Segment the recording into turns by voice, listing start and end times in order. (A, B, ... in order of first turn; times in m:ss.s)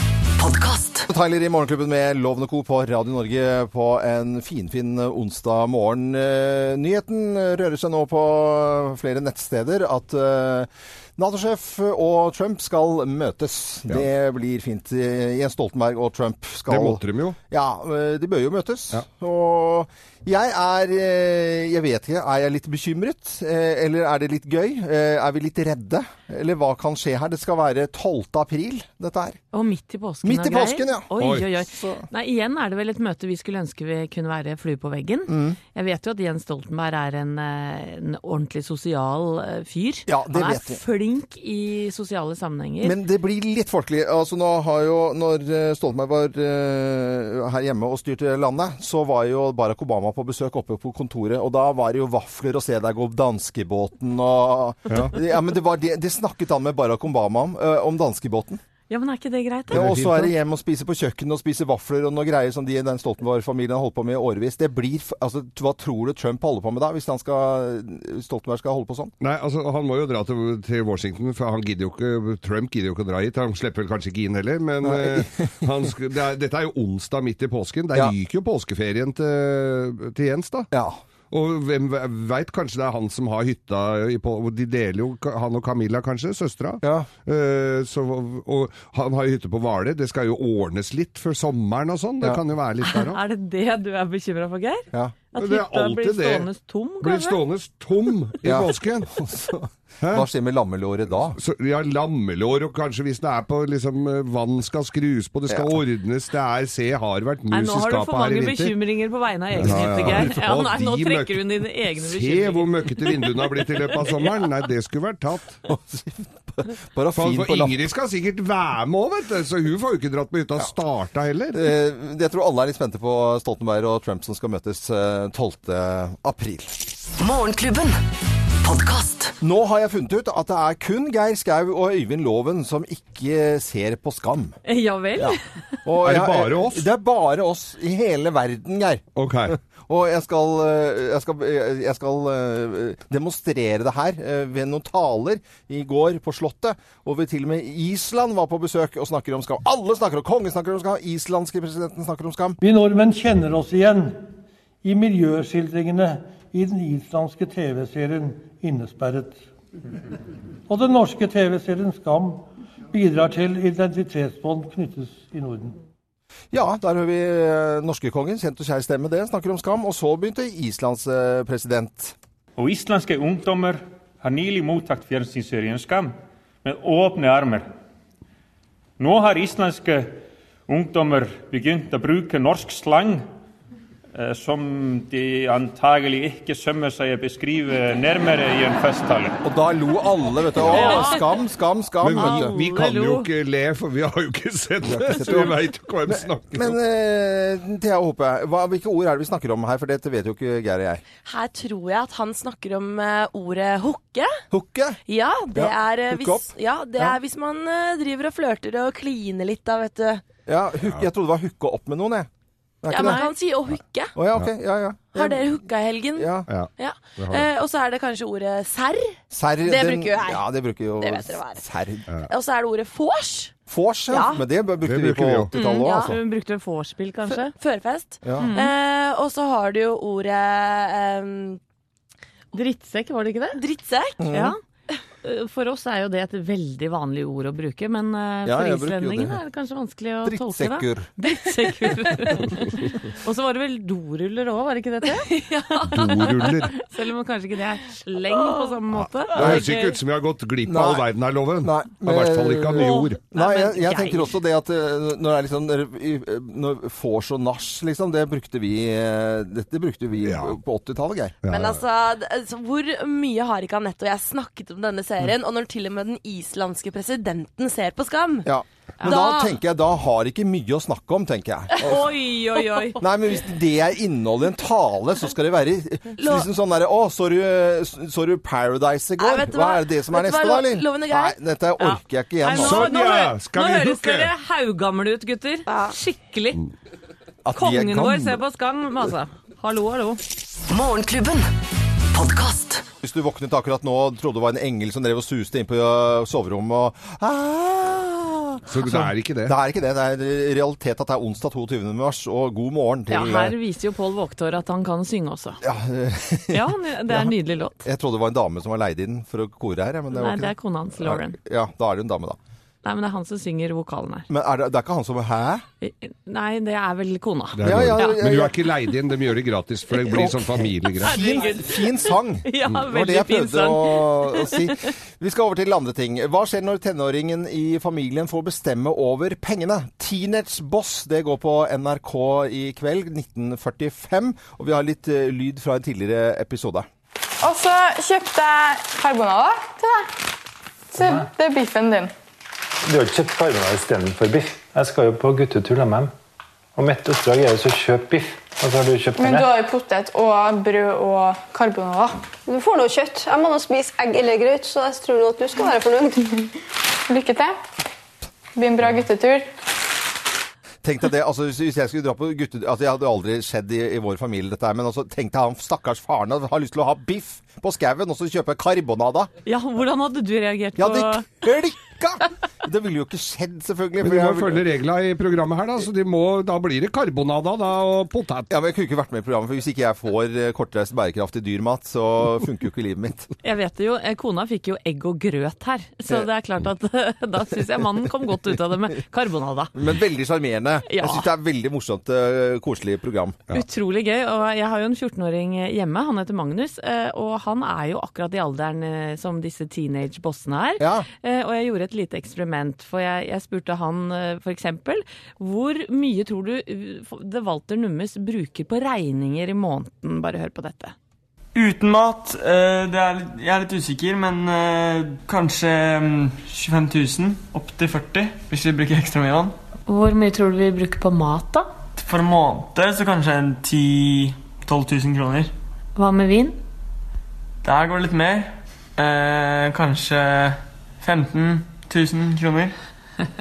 0:00.4-0:01.1 A
0:01.1-0:29.4 B
0:16.7-0:17.4 C
0:29.5-0:43.0 D
0:30.2-0:32.1 B
0:31.2-0:31.4 C
0:35.3-0:35.6 B
0:40.1-0:40.8 B
0:42.8-0:58.6 B
0:54.9-0:55.1 C
0:58.9-1:00.1 D
0:59.7-1:00.3 C
0:59.7-1:09.1 B
1:09.2-1:20.7 C
1:14.8-1:15.7 B
1:20.7-1:21.0 B
1:21.3-1:33.2 C
1:26.8-1:27.1 B
1:32.8-1:37.4 D
1:35.4-1:36.5 C
1:37.0-1:39.1 C
1:38.4-1:41.4 B
1:40.0-1:40.3 C
1:41.3-1:48.8 C
1:45.5-1:45.8 B
1:47.5-1:53.5 D
1:49.5-1:55.6 C
1:49.6-1:50.2 B
1:55.7-1:57.8 B
1:57.1-2:01.7 C
2:01.5-2:06.8 B
2:07.2-2:08.0 A
2:08.6-2:09.3 A
2:09.4-2:14.6 B
2:14.6-2:15.4 D
2:15.2-2:32.6 B
2:16.0-2:16.9 C
2:19.2-2:19.5 C
2:32.6-2:34.2 E
2:34.8-2:39.4 E
2:40.7-2:45.8 E
2:46.5-2:52.1 B
2:52.6-2:57.7 F
2:59.0-3:03.2 F
3:04.2-3:09.4 F
3:09.4-3:12.5 B
3:10.6-3:11.0 C
3:10.6-3:11.3 D
3:12.0-3:16.8 C
3:12.2-3:13.3 D
3:14.8-3:21.0 B
3:21.2-3:24.4 G
3:24.5-3:25.0 B
3:25.1-3:30.2 G
3:25.5-3:27.2 B
3:30.5-3:32.3 B
3:32.8-3:33.3 B
3:32.9-3:34.1 G
3:32.9-3:33.3 D
3:34.1-3:35.6 B
3:35.1-3:40.4 G
3:36.1-3:36.5 B
3:36.5-3:37.5 C
3:39.3-3:42.1 B
3:41.0-3:41.6 G
3:42.3-3:43.5 G
3:43.7-3:46.2 B
3:44.1-3:44.4 G
3:44.8-3:45.5 C
3:45.5-3:47.5 D
3:45.6-3:46.1 G
3:47.4-3:51.6 G
3:48.2-3:48.5 B
3:48.4-3:48.7 D
3:52.5-3:53.6 D
3:53.5-3:54.3 G
3:54.2-3:54.5 B
3:54.3-3:54.6 D
3:55.2-4:10.0 D
3:58.4-3:59.4 B
4:00.2-4:01.1 B
4:05.2-4:05.8 G
4:05.8-4:06.7 C
4:08.3-4:08.7 G
4:08.9-4:13.2 C
4:09.4-4:09.6 B
4:10.6-4:11.0 B
4:11.6-4:21.4 B
4:13.3-4:14.3 D
4:20.2-4:20.6 C
4:21.4-4:21.8 C
4:21.5-4:28.5 G
4:28.4-4:32.1 B
4:29.0-4:29.6 G
4:31.8-4:33.0 D
4:33.0-4:42.9 B
4:36.2-4:36.5 G
4:39.2-4:41.4 G
4:41.8-4:46.6 D
4:42.5-4:44.3 C
4:45.7-4:45.9 G
4:47.4-4:48.4 B
4:47.6-4:50.2 D
4:50.7-4:51.5 A
4:52.1-4:52.8 A
4:53.0-5:03.5 B
4:58.7-4:59.6 C
5:03.1-5:05.6 D
5:05.6-5:12.4 B
5:06.5-5:07.8 D
5:10.1-5:11.4 D
5:12.8-5:14.3 D
5:14.3-5:15.6 B
5:15.8-5:18.2 D
5:17.6-5:21.2 C
5:17.6-5:18.6 B
5:20.0-5:36.9 B
5:21.0-5:24.9 D
5:37.4-5:40.1 H
5:40.9-5:42.1 H
5:41.0-5:41.3 I
5:42.8-5:46.1 I
5:46.8-5:49.5 I
5:49.2-5:52.2 H
5:52.4-5:56.4 J
5:57.1-5:57.6 H
5:58.6-5:59.5 H
6:00.8-6:09.3 B
6:09.4-6:11.3 D
6:10.8-6:14.6 B
6:14.0-6:18.5 C
6:18.5-6:23.3 B
6:23.4-6:29.7 D
6:29.7-6:33.4 B
6:30.9-6:31.3 D
6:33.5-6:50.9 D
6:40.8-6:41.1 B
6:51.5-6:59.6 K
6:59.9-7:01.6 D
7:02.0-7:05.5 K
7:06.0-7:06.5 D
7:07.6-7:12.8 K